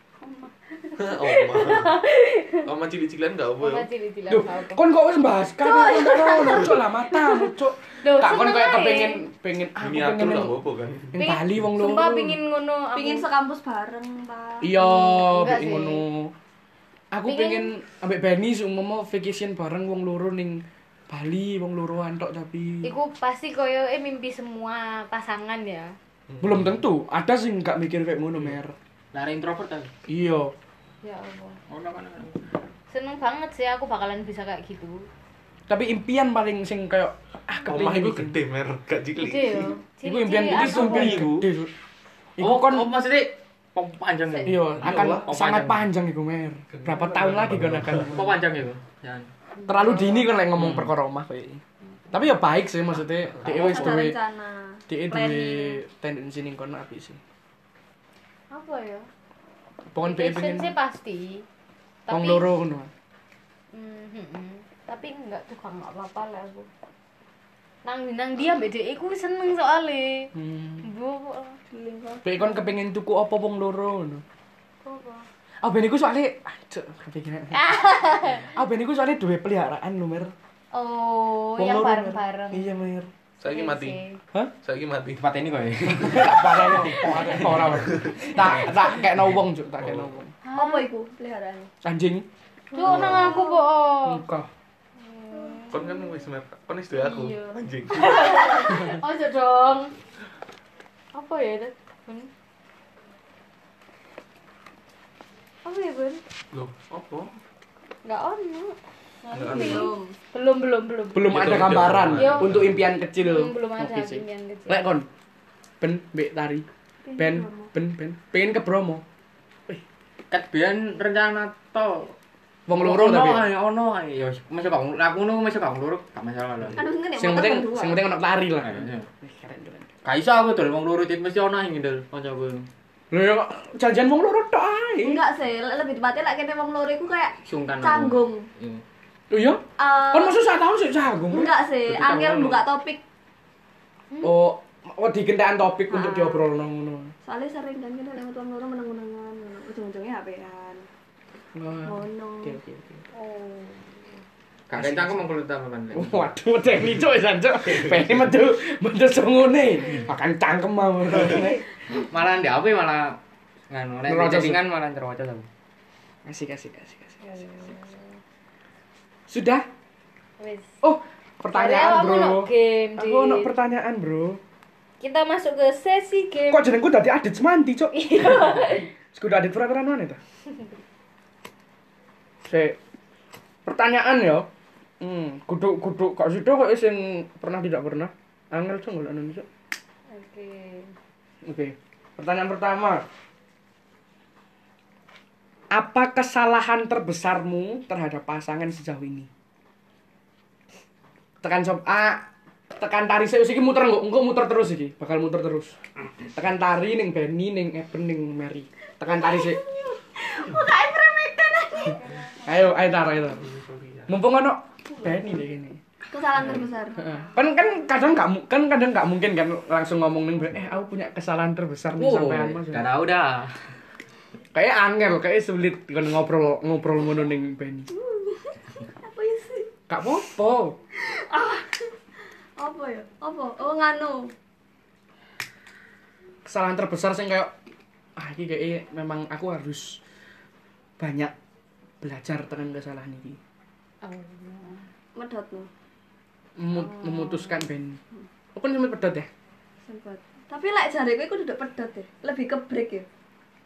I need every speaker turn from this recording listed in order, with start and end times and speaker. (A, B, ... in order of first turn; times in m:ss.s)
0:00.2-0:02.7 A
0:01.0-0:02.0 B
0:02.6-0:03.9 B
0:03.6-0:04.8 A
0:04.3-0:10.6 C
0:05.7-0:07.5 A
0:05.8-0:06.7 D
0:08.0-0:09.2 A
0:09.8-0:11.2 B
0:11.1-0:12.4 C
0:11.2-0:13.2 A
0:12.9-0:14.8 D
0:14.6-0:16.3 C
0:14.7-0:16.0 A
0:17.1-0:22.9 C
0:17.2-0:17.7 A
0:22.8-0:26.0 A
0:26.3-0:26.8 B
0:26.4-0:28.7 C
0:29.1-0:29.9 E
0:30.1-0:30.5 C
0:31.0-0:31.6 A
0:31.7-0:32.4 E
0:32.9-0:35.1 A
0:35.7-0:38.4 C
0:37.7-0:39.7 B
0:39.2-0:41.3 A
0:40.0-0:41.7 C
0:40.5-0:41.5 E
0:42.4-0:42.9 C
0:42.4-0:45.8 E
0:44.3-0:44.6 A
0:44.4-0:48.4 C
0:44.8-0:45.3 B
0:46.7-0:48.1 B
0:47.9-0:49.3 E
0:49.6-0:50.3 A
0:49.7-0:54.2 C
0:50.6-0:50.9 E
0:53.4-0:55.8 D
0:53.6-0:53.9 E
0:54.9-0:57.2 C
0:58.5-0:59.1 A
0:59.9-1:00.7 C
1:00.0-1:01.4 A
1:02.1-1:02.5 A
1:02.1-1:02.9 C
1:03.7-1:06.7 A
1:07.8-1:11.6 A
1:10.3-1:10.8 C
1:11.7-1:12.2 D
1:12.2-1:14.2 C
1:14.8-1:15.3 A
1:15.6-1:20.3 C
1:17.5-1:18.5 A
1:20.7-1:22.8 A
1:21.6-1:23.1 C
1:23.4-1:24.0 B
1:23.4-1:24.2 A
1:24.6-1:25.3 B
1:25.2-1:27.6 E
1:26.0-1:30.3 C
1:26.3-1:27.5 A
1:27.8-1:28.2 B
1:29.8-1:30.1 B
1:30.4-1:30.9 A
1:30.5-1:31.7 D
1:31.8-1:32.3 C
1:32.7-1:34.2 A
1:32.8-1:33.7 D
1:32.9-1:33.3 C
1:34.0-1:34.5 C
1:35.0-1:36.2 A
1:35.3-1:35.6 D
1:35.7-1:38.8 B
1:36.9-1:39.9 A
1:41.1-1:42.3 A
1:45.6-1:46.2 A
1:46.5-1:47.3 B
1:48.0-1:51.5 A
1:49.2-1:50.2 D
1:49.3-1:49.9 B
1:51.1-1:55.1 C
1:51.3-1:52.9 B
1:52.1-1:54.9 A
1:55.8-1:56.6 C
1:57.1-1:57.7 D
1:57.2-1:59.0 C
2:00.3-2:02.2 E
2:02.7-2:03.5 C
2:02.8-2:06.8 E
2:06.8-2:08.0 D
2:07.2-2:09.9 C
2:08.6-2:09.1 E
2:10.0-2:12.7 E
2:13.1-2:15.2 C
2:15.0-2:18.5 D
2:17.4-2:18.8 E
2:19.3-2:22.6 C
2:19.8-2:20.4 D
2:21.3-2:23.0 D
2:24.2-2:27.1 C
2:25.9-2:26.4 D
2:27.2-2:30.9 D
2:31.5-2:33.0 C
2:31.8-2:32.6 D
2:33.1-2:34.1 A
2:34.7-2:36.2 E
2:34.7-2:35.3 C
2:35.9-2:41.6 C
2:41.3-2:41.6 A
2:41.9-2:43.2 E
2:43.7-2:45.5 E
2:44.0-2:44.6 C
2:46.2-2:47.4 C
2:47.2-2:48.0 A
2:49.3-2:49.6 C
2:50.4-2:50.7 A
2:50.8-2:54.4 C
2:51.5-2:53.5 A
2:55.0-2:56.7 A
2:56.5-3:00.2 C
2:57.9-2:58.9 A
3:02.4-3:02.8 C
3:03.6-3:04.5 C
3:05.0-3:09.4 C
3:10.1-3:10.9 A
3:11.4-3:13.0 C
3:15.7-3:19.3 C
3:21.4-3:25.8 C
3:26.3-3:29.6 C
3:29.0-3:32.4 D
3:32.4-3:33.5 C
3:33.3-3:34.1 B
3:34.1-3:35.8 C
3:36.1-3:37.2 D
3:37.0-3:42.9 C
3:42.0-3:43.6 E
3:44.5-3:47.9 C
3:47.9-3:49.7 D
3:49.9-3:50.8 C
3:50.9-3:51.9 D
3:52.6-3:54.3 D
3:56.4-3:57.5 C
3:58.2-4:00.0 C
4:01.0-4:01.3 C
4:02.0-4:03.4 C
4:04.0-4:04.9 A
4:05.1-4:05.7 D
4:06.6-4:08.0 C
4:07.1-4:07.4 D
4:08.5-4:09.3 C
4:09.8-4:13.1 D